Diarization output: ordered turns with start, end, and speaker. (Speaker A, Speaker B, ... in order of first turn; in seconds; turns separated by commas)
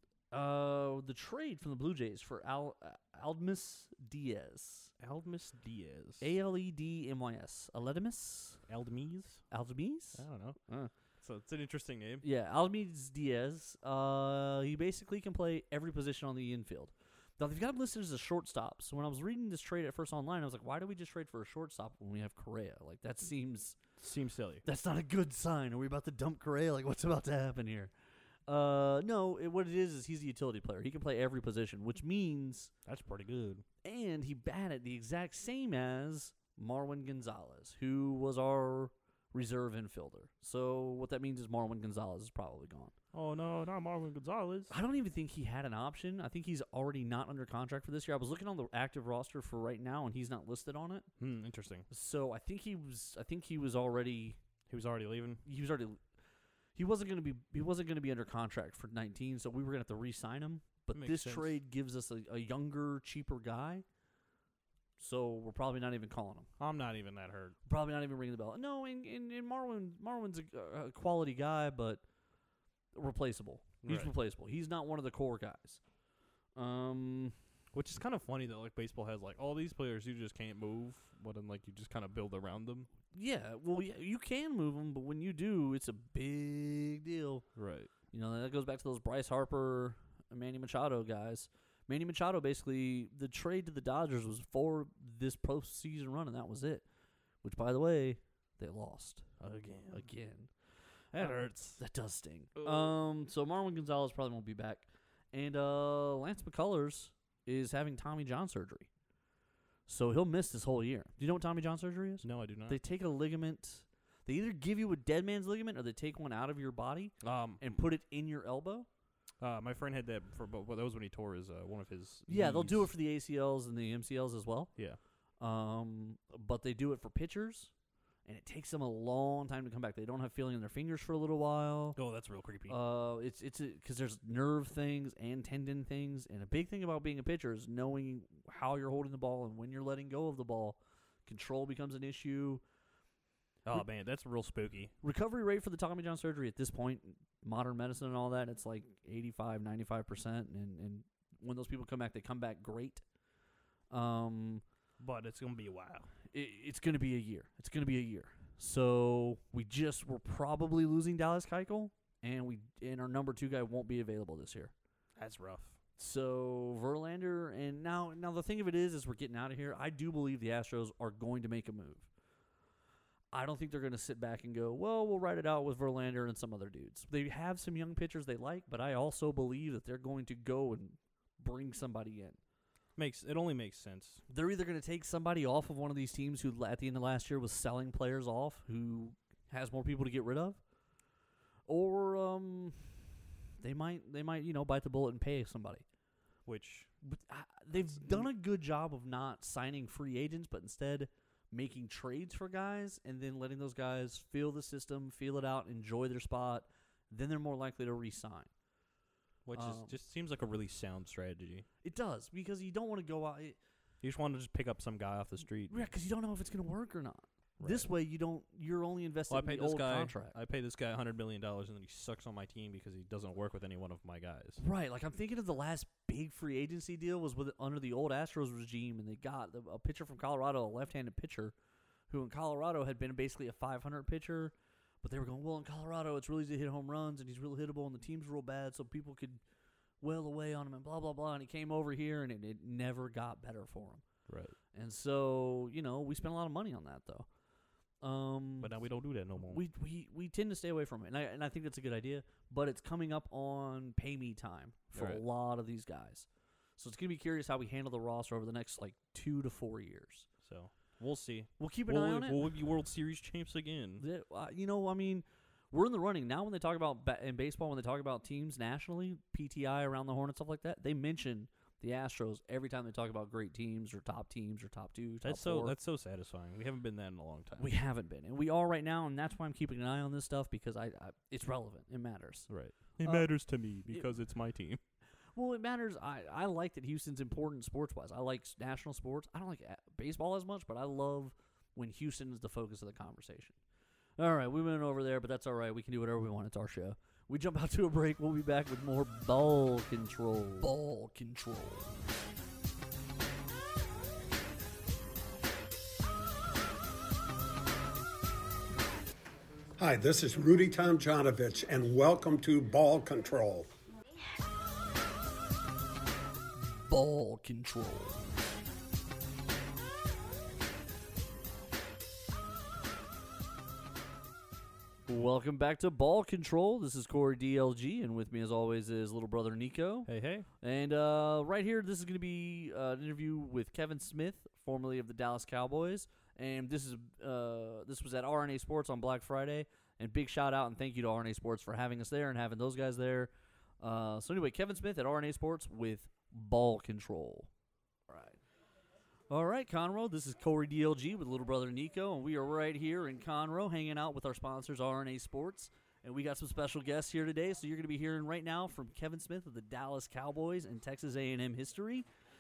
Speaker A: 0.3-4.9, Speaker B: 5.0-6.3, Speaker A: 6.2-8.6, Speaker B: 8.7-9.4, Speaker A: 9.5-10.9, Speaker B: 10.2-10.6, Speaker B: 11.2-12.2, Speaker A: 12.2-23.8, Speaker B: 24.0-24.6, Speaker A: 24.6-27.9, Speaker A: 28.5-32.7, Speaker B: 32.9-33.6, Speaker A: 33.8-42.9, Speaker B: 43.1-44.7, Speaker A: 44.7-51.1, Speaker B: 51.2-51.9, Speaker A: 51.9-54.4, Speaker B: 54.7-55.4, Speaker A: 55.4-56.0, Speaker A: 56.8-63.8, Speaker B: 60.9-61.6, Speaker A: 65.0-66.5, Speaker B: 66.6-67.5, Speaker A: 67.7-72.0, Speaker A: 72.9-75.8, Speaker B: 73.8-74.1, Speaker A: 76.5-77.3, Speaker B: 77.7-82.9, Speaker A: 83.1-87.4, Speaker B: 87.5-87.9, Speaker A: 88.1-96.8, Speaker A: 97.4-99.3, Speaker B: 99.4-100.0, Speaker A: 99.9-100.5, Speaker B: 101.1-101.8, Speaker A: 101.2-108.9, Speaker B: 102.6-102.9, Speaker A: 109.9-118.9, Speaker B: 112.2-112.8, Speaker B: 117.2-117.8, Speaker B: 119.4-122.9, Speaker A: 122.3-124.7, Speaker A: 125.4-127.7, Speaker A: 128.2-132.0, Speaker B: 131.9-132.8, Speaker A: 132.7-142.6, Speaker B: 143.6-144.9, Speaker A: 145.0-153.0, Speaker A: 153.9-154.6, Speaker B: 155.0-156.1, Speaker A: 156.3-164.7, Speaker B: 165.2-165.8, Speaker A: 166.0-172.1, Speaker A: 173.3-182.4, Speaker B: 183.0-184.2, Speaker A: 184.3-190.6, Speaker A: 191.7-193.1, Speaker A: 193.6-195.8, Speaker B: 196.4-196.9, Speaker A: 197.0-208.5, Speaker B: 197.8-198.3, Speaker B: 209.4-211.7, Speaker A: 209.5-209.9, Speaker A: 211.8-213.6, Speaker B: 214.0-215.8, Speaker A: 215.7-220.4, Speaker B: 217.6-217.9, Speaker B: 219.3-224.6, Speaker A: 224.6-231.5, Speaker A: 232.1-239.4, Speaker A: 240.0-244.0, Speaker B: 244.3-244.5, Speaker A: 244.7-247.3, Speaker A: 248.0-248.8, Speaker B: 248.6-249.6, Speaker A: 249.4-256.2, Speaker B: 254.9-255.2, Speaker A: 256.8-260.3, Speaker B: 260.4-264.0, Speaker A: 261.6-262.4, Speaker A: 264.0-275.8, Speaker B: 275.2-277.7, Speaker A: 277.6-282.5, Speaker B: 282.5-284.8, Speaker A: 283.0-283.3, Speaker A: 285.3-293.6, Speaker A: 294.2-301.9, Speaker C: 309.8-313.7, Speaker A: 316.6-318.2, Speaker A: 325.1-330.1, Speaker B: 330.1-330.5, Speaker A: 330.6-347.5, Speaker A: 348.1-348.4, Speaker A: 349.3-362.1